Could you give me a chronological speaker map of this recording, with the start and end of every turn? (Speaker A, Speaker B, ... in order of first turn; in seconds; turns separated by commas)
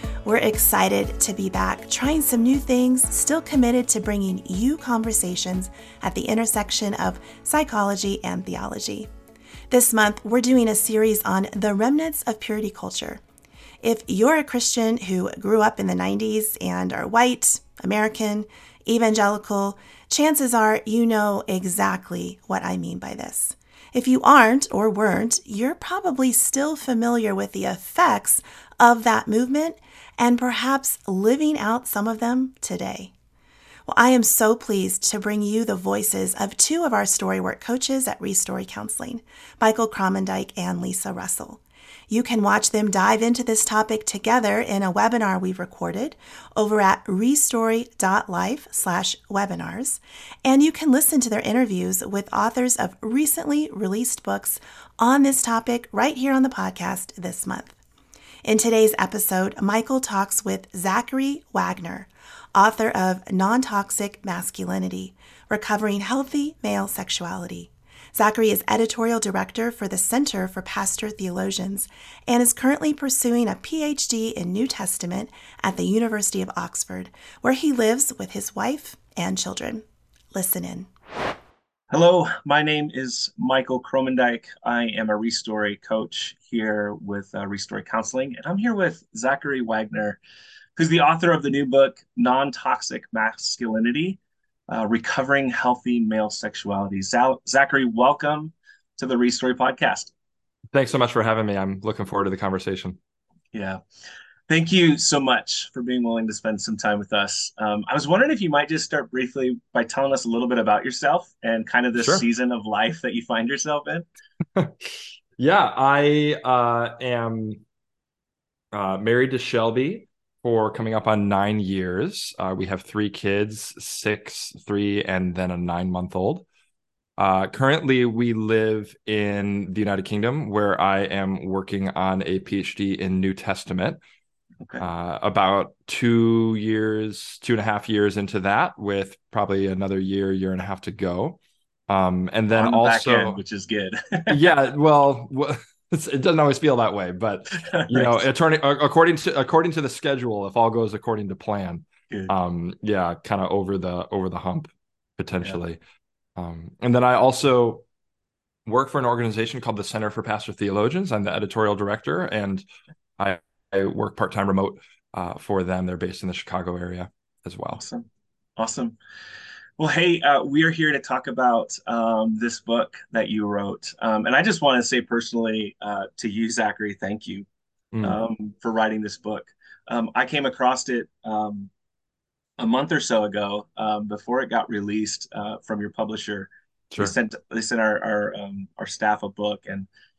Speaker A: 0.2-9.1, Speaker A: 9.7-13.2, Speaker A: 13.8-33.1, Speaker A: 33.9-57.7, Speaker A: 58.4-80.9, Speaker B: 81.9-90.2, Speaker B: 90.8-100.1, Speaker C: 100.7-103.0, Speaker B: 103.5-103.8, Speaker B: 104.5-114.0, Speaker C: 112.0-112.2, Speaker C: 114.5-117.6, Speaker C: 118.7-126.4, Speaker C: 127.2-134.0, Speaker C: 134.8-143.4, Speaker B: 142.6-144.4, Speaker C: 144.3-155.8, Speaker B: 147.5-148.2, Speaker C: 156.3-157.8, Speaker C: 158.7-162.7, Speaker C: 163.2-167.8, Speaker B: 167.7-169.0, Speaker B: 169.8-177.5, Speaker C: 177.9-178.2, Speaker B: 178.0-181.7, Speaker B: 182.6-189.9